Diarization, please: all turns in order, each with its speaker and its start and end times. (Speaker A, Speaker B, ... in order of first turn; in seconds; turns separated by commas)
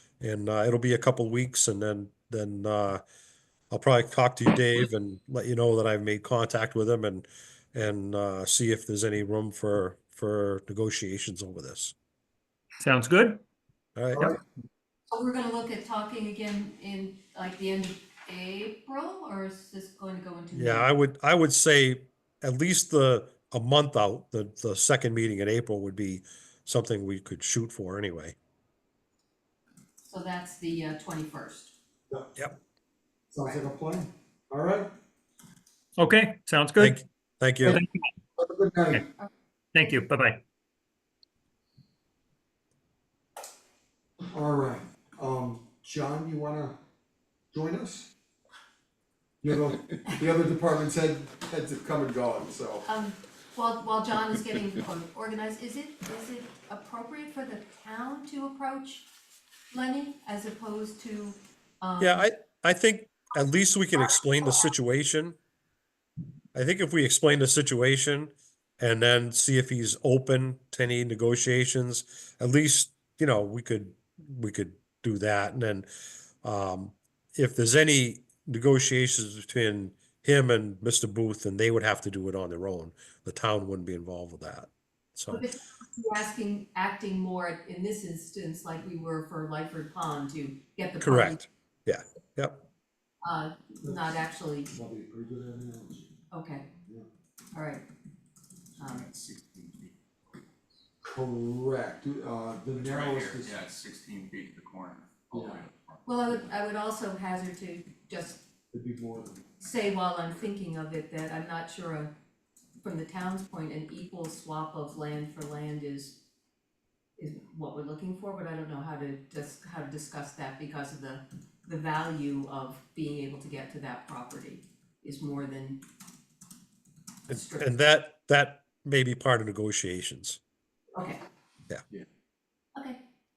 Speaker A: 0.2-3.0, Speaker A: 3.7-11.9, Speaker B: 12.8-13.4, Speaker A: 13.9-14.3, Speaker C: 15.1-20.9, Speaker A: 20.5-28.3, Speaker C: 30.0-31.7, Speaker D: 32.1-32.4, Speaker D: 33.3-34.9, Speaker B: 36.0-37.0, Speaker A: 36.8-37.8, Speaker B: 37.6-38.0, Speaker D: 38.4-39.0, Speaker B: 39.7-40.4, Speaker D: 44.3-46.8, Speaker D: 47.5-48.1, Speaker D: 49.4-52.9, Speaker C: 52.8-59.1, Speaker C: 59.7-62.2, Speaker A: 62.0-65.4, Speaker A: 66.5-75.9, Speaker A: 76.4-85.4, Speaker C: 85.3-91.4, Speaker A: 91.0-92.6, Speaker C: 93.2-94.7, Speaker D: 93.8-94.1, Speaker D: 94.7-96.1, Speaker C: 96.3-96.7, Speaker D: 96.8-97.1, Speaker C: 97.5-97.8, Speaker C: 98.8-99.1, Speaker E: 98.8-99.9, Speaker D: 101.0-103.6, Speaker E: 102.8-106.1, Speaker D: 105.3-105.6, Speaker C: 106.0-108.4, Speaker D: 108.7-109.4, Speaker C: 109.6-112.1, Speaker C: 112.8-116.2, Speaker C: 117.2-125.8, Speaker C: 127.3-127.8, Speaker A: 127.3-130.4, Speaker C: 130.9-131.2